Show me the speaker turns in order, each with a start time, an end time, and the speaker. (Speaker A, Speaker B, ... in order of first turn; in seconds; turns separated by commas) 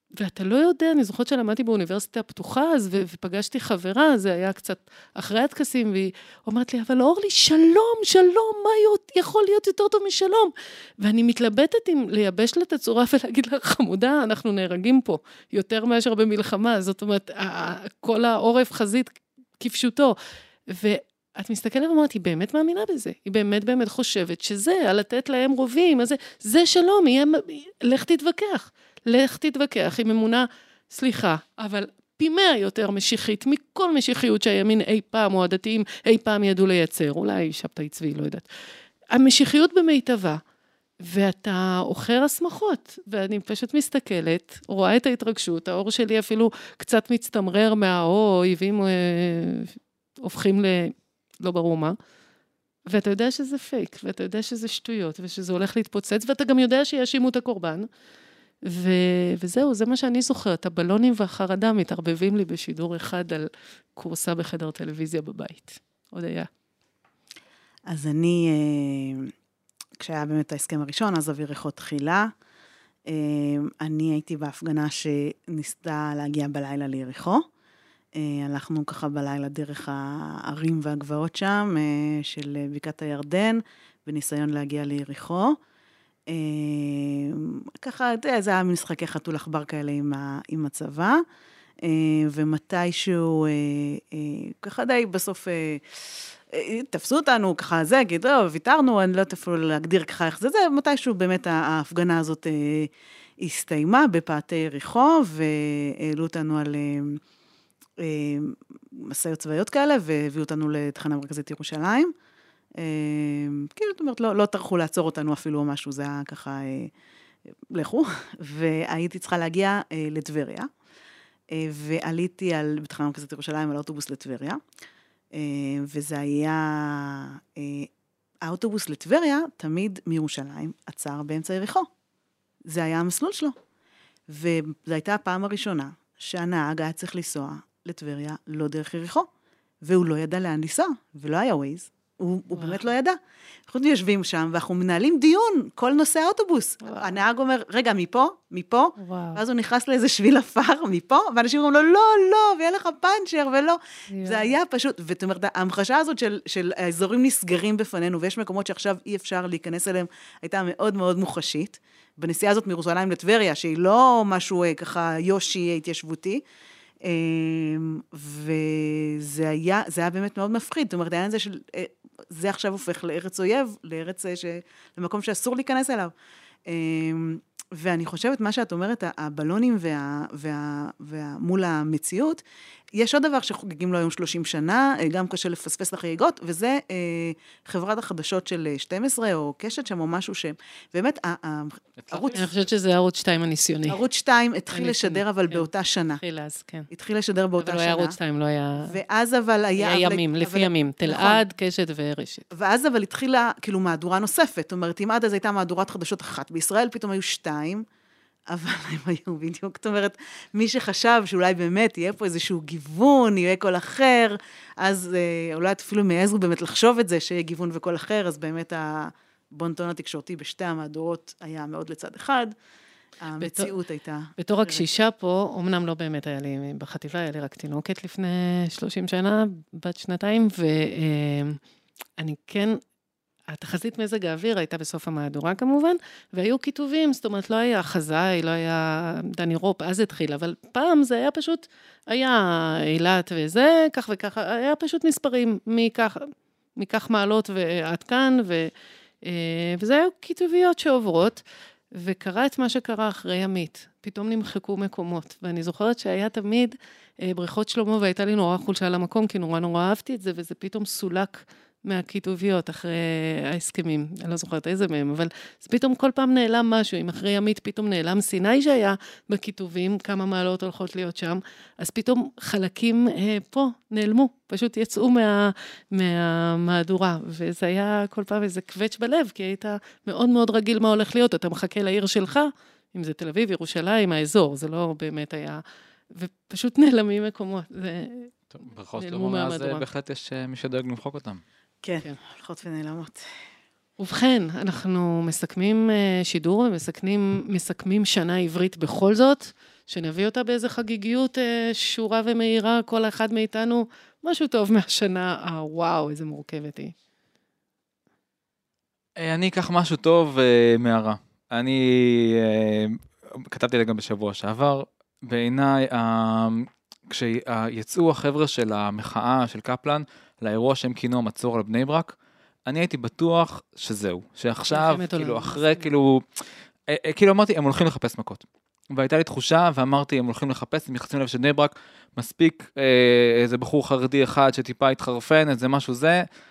Speaker A: 0.2-20.2, Speaker A: 20.7-38.5, Speaker A: 39.1-40.4, Speaker A: 41.0-52.0, Speaker A: 52.9-57.9, Speaker A: 58.6-66.5, Speaker B: 67.9-69.3, Speaker B: 70.0-72.3, Speaker B: 73.1-77.5, Speaker B: 78.2-85.6, Speaker B: 86.3-91.2, Speaker B: 91.8-95.8, Speaker B: 96.5-107.2, Speaker B: 108.0-112.1, Speaker B: 112.8-116.9, Speaker B: 117.7-120.7, Speaker B: 121.5-124.6, Speaker B: 125.3-127.9, Speaker B: 128.4-131.9, Speaker B: 132.7-133.6, Speaker B: 134.3-139.3, Speaker B: 139.8-166.4, Speaker A: 142.6-142.8, Speaker A: 146.8-147.2, Speaker A: 149.0-149.4, Speaker A: 154.1-154.5, Speaker B: 167.0-176.1, Speaker B: 176.7-182.4, Speaker B: 182.9-192.4, Speaker C: 192.0-192.5, Speaker A: 192.3-194.0, Speaker B: 193.9-196.2, Speaker A: 194.7-195.7, Speaker A: 196.2-196.9, Speaker B: 196.9-198.2, Speaker A: 197.6-198.9, Speaker B: 198.8-201.4, Speaker A: 199.8-202.5, Speaker B: 202.5-207.8, Speaker B: 208.5-222.5, Speaker B: 223.2-224.8, Speaker A: 223.4-223.7, Speaker A: 224.4-231.6, Speaker A: 232.2-232.8, Speaker A: 233.5-248.7, Speaker A: 249.2-251.4, Speaker A: 251.9-288.4, Speaker C: 288.5-291.4, Speaker A: 289.0-289.9, Speaker B: 291.8-293.3, Speaker A: 294.0-306.9, Speaker C: 309.2-322.1, Speaker C: 322.7-336.3, Speaker A: 324.7-325.9